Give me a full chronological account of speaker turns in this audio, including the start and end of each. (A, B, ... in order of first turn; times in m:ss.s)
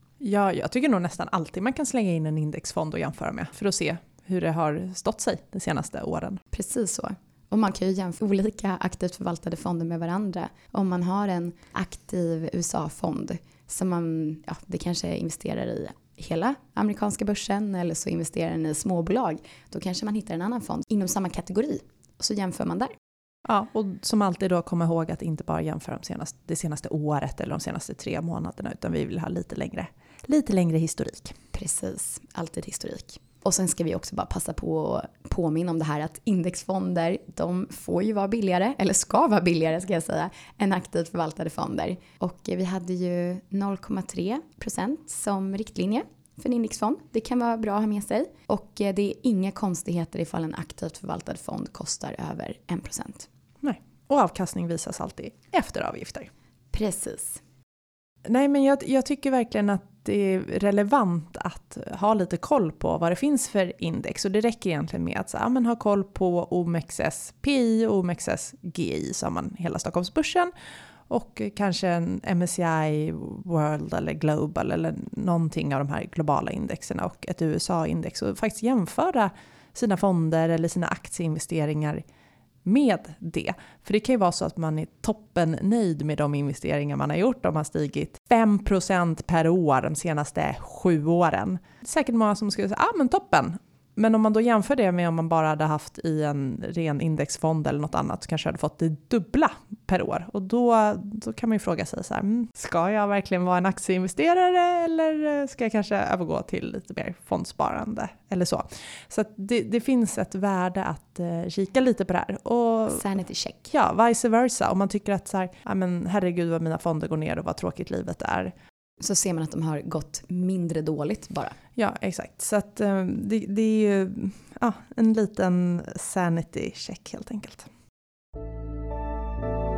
0:00.2-0:06.4 A
0:06.5-0:22.9 B
0:23.4-0:31.4 A
0:31.5-0:53.3 B
0:53.6-0:56.3 A
0:56.7-0:57.4 B
0:58.3-1:10.5 A
1:11.1-1:22.0 A
1:22.6-1:53.1 A
1:52.9-1:53.7 B
1:53.7-1:58.5 A
1:59.0-2:01.6 B
2:01.8-2:07.7 A